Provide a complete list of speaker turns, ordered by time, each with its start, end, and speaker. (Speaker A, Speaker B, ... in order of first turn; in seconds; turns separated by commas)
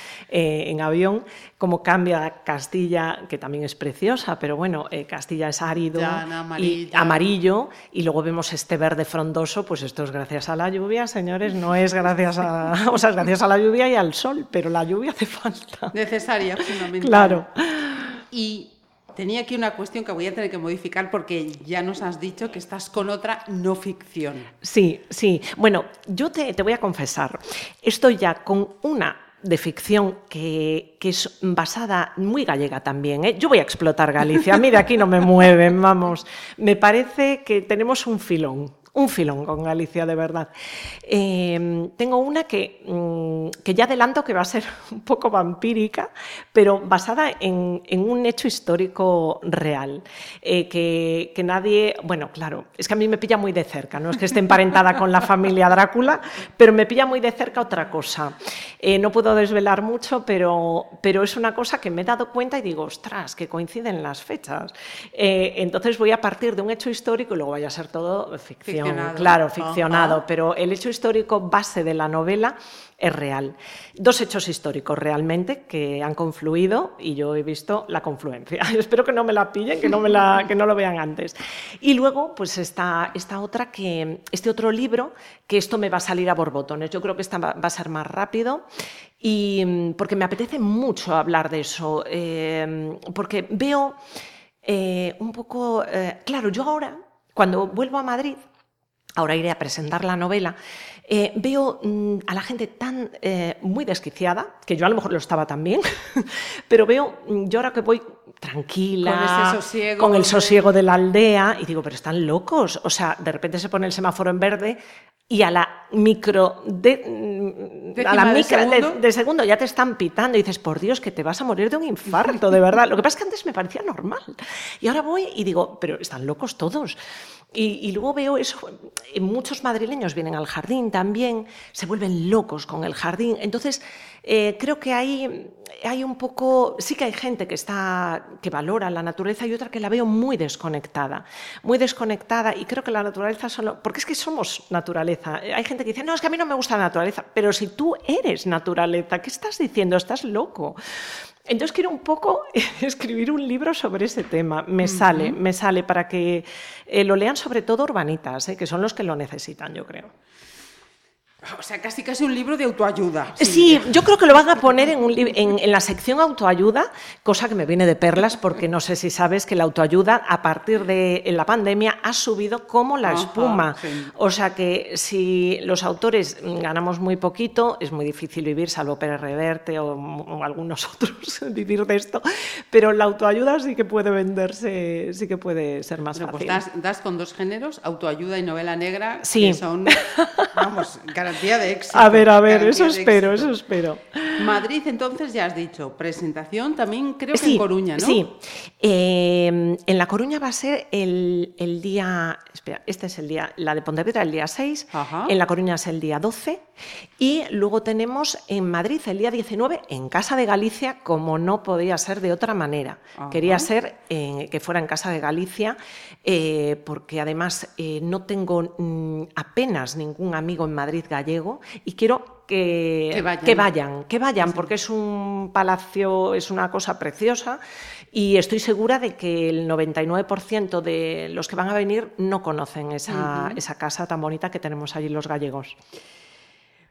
Speaker A: 0.3-16.0, Speaker B: 5.9-7.3, Speaker B: 15.9-17.4, Speaker A: 16.9-18.2, Speaker B: 18.3-24.5, Speaker A: 24.6-40.5, Speaker A: 41.0-88.7, Speaker B: 68.7-70.2, Speaker A: 89.2-94.0, Speaker A: 94.6-98.4, Speaker A: 99.2-127.0, Speaker B: 109.0-110.7, Speaker B: 118.0-119.0, Speaker A: 127.5-150.8, Speaker A: 151.5-160.1, Speaker B: 154.8-155.4, Speaker B: 161.4-164.0, Speaker A: 163.4-186.6, Speaker B: 173.1-174.1, Speaker B: 186.1-193.6, Speaker A: 189.2-190.6, Speaker A: 191.9-194.4, Speaker B: 194.4-198.2, Speaker A: 197.3-206.6, Speaker B: 204.9-205.3, Speaker A: 207.2-227.6, Speaker B: 213.2-213.7, Speaker B: 223.1-223.7, Speaker B: 224.4-224.7, Speaker A: 228.1-235.8, Speaker B: 233.1-233.6